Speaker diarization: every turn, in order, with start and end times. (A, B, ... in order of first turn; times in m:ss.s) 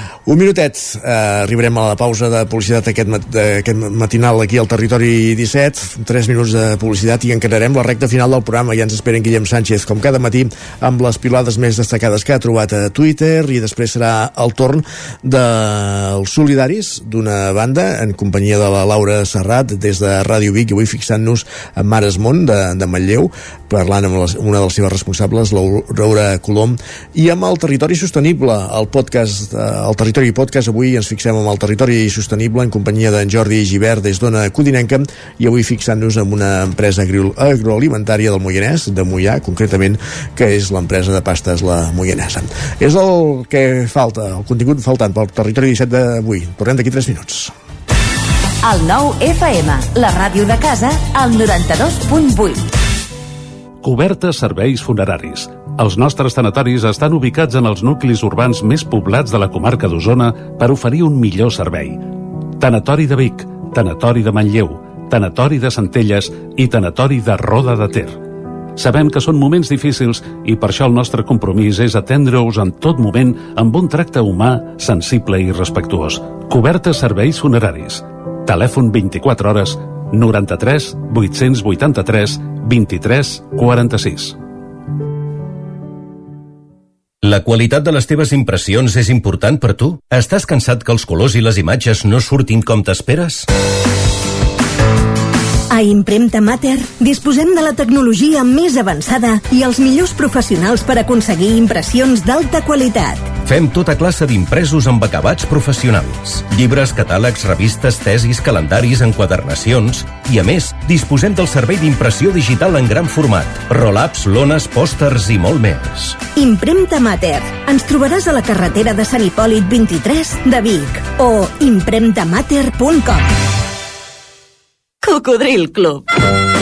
0:00.2-0:47.5 A
0:48.6-0:52.7 B
0:53.8-1:02.0 C
1:02.6-1:08.2 C
1:08.8-1:24.3 C
1:27.2-1:33.4 D
1:35.7-1:43.3 E
1:43.4-1:56.2 D
1:56.3-2:03.3 E
2:05.0-2:06.0 E